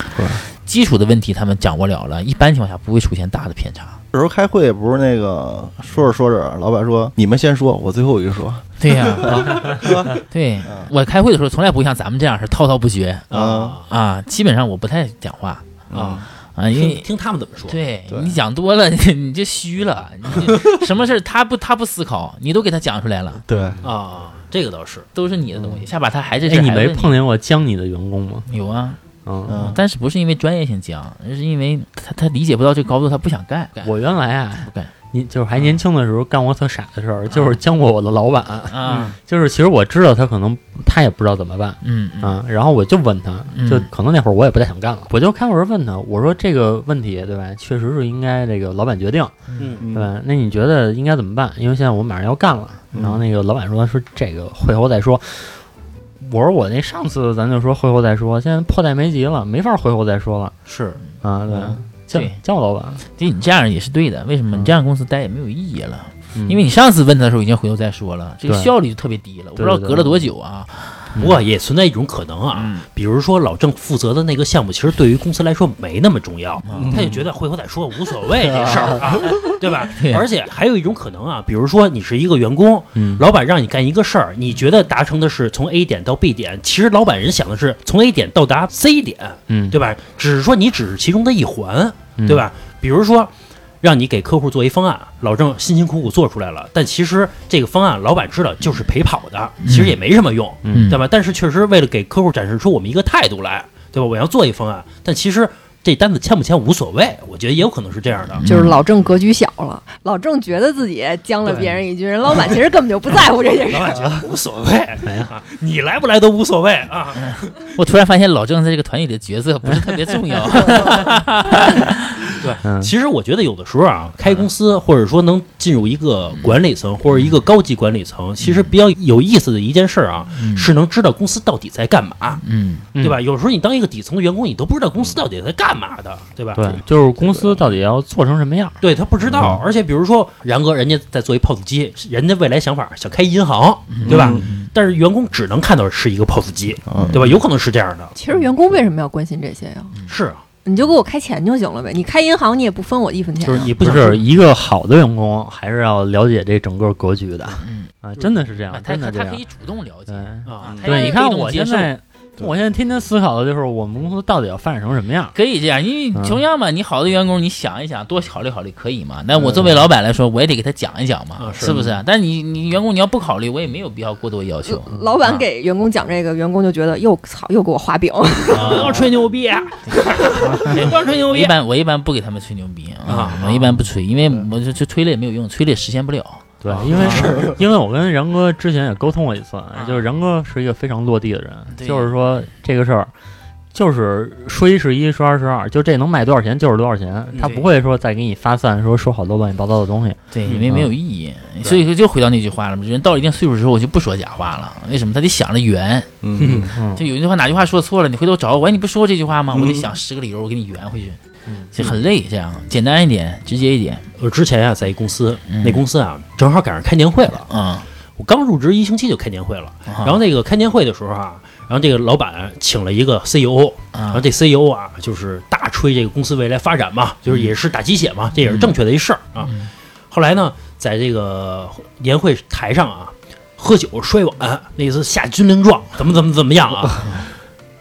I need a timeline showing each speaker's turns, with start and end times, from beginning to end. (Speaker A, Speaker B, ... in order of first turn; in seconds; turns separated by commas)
Speaker A: 0.1-0.4, Speaker B: 0.6-4.0, Speaker A: 4.1-10.2, Speaker B: 8.8-15.8, Speaker C: 9.4-9.7, Speaker C: 13.3-13.8, Speaker A: 13.3-13.8, Speaker A: 15.9-16.3, Speaker C: 15.9-17.8, Speaker B: 16.6-17.1, Speaker B: 17.7-23.4, Speaker A: 18.1-18.4, Speaker C: 20.5-20.8, Speaker A: 23.5-23.8, Speaker C: 23.8-25.1, Speaker B: 25.1-27.2, Speaker D: 26.5-28.5, Speaker B: 28.5-29.0, Speaker D: 29.2-29.8, Speaker A: 29.5-29.8, Speaker B: 29.6-34.0, Speaker D: 33.8-49.4, Speaker B: 34.6-34.9, Speaker B: 37.3-37.6, Speaker B: 38.7-39.2, Speaker C: 38.9-39.1, Speaker B: 41.8-42.4, Speaker B: 43.5-43.9, Speaker B: 49.5-49.8, Speaker C: 49.6-49.8, Speaker A: 49.8-50.1, Speaker D: 49.9-55.6, Speaker D: 56.2-60.6, Speaker C: 60.7-61.0, Speaker D: 61.2-63.0, Speaker B: 62.1-62.4, Speaker B: 63.2-71.1, Speaker D: 66.4-66.6, Speaker D: 68.5-68.7, Speaker D: 69.6-70.3, Speaker C: 71.2-93.3, Speaker B: 72.5-72.8, Speaker B: 76.7-77.1, Speaker A: 76.7-77.0, Speaker A: 78.5-79.4, Speaker B: 80.0-80.2, Speaker D: 83.0-83.2, Speaker D: 89.5-89.8, Speaker D: 92.2-92.5, Speaker C: 93.8-108.4, Speaker B: 99.6-100.0, Speaker D: 100.6-101.0, Speaker B: 100.7-101.0, Speaker B: 108.3-108.8, Speaker E: 108.5-114.1, Speaker C: 111.5-111.8, Speaker C: 113.7-117.5, Speaker D: 115.0-115.3, Speaker B: 117.2-122.4, Speaker C: 122.4-132.4, Speaker D: 122.6-122.9, Speaker B: 128.4-128.7, Speaker B: 130.3-130.7, Speaker B: 132.4-132.9, Speaker D: 132.9-133.2, Speaker C: 133.0-136.8, Speaker D: 136.6-138.8, Speaker C: 138.8-148.1, Speaker B: 139.3-139.6, Speaker B: 143.9-144.7, Speaker A: 144.0-144.5, Speaker A: 146.9-147.4, Speaker E: 148.2-149.9, Speaker C: 150.1-150.4, Speaker E: 150.7-153.7, Speaker C: 153.5-154.2, Speaker D: 153.5-159.4, Speaker B: 157.6-157.9, Speaker B: 158.7-161.9, Speaker D: 160.1-165.3, Speaker C: 160.5-160.8, Speaker A: 160.7-161.1, Speaker B: 165.3-175.4, Speaker C: 171.4-171.9, Speaker E: 174.7-178.8, Speaker C: 178.5-181.6, Speaker B: 178.6-179.0, Speaker B: 179.9-187.3, Speaker C: 183.1-183.8, Speaker D: 186.6-193.1, Speaker C: 186.8-187.5, Speaker B: 189.8-190.1, Speaker B: 191.8-192.2, Speaker D: 193.7-200.9, Speaker B: 200.3-206.1, Speaker A: 206.2-206.7, Speaker C: 206.4-206.7, Speaker D: 206.7-207.1, Speaker B: 206.9-211.2, Speaker A: 209.6-209.9, Speaker B: 211.7-214.1, Speaker C: 214.2-217.5, Speaker B: 215.5-215.8, Speaker B: 217.5-217.9, Speaker C: 218.2-237.3, Speaker B: 219.9-220.2, Speaker B: 223.9-224.2, Speaker B: 227.3-227.5, Speaker B: 228.4-228.8, Speaker B: 229.4-229.7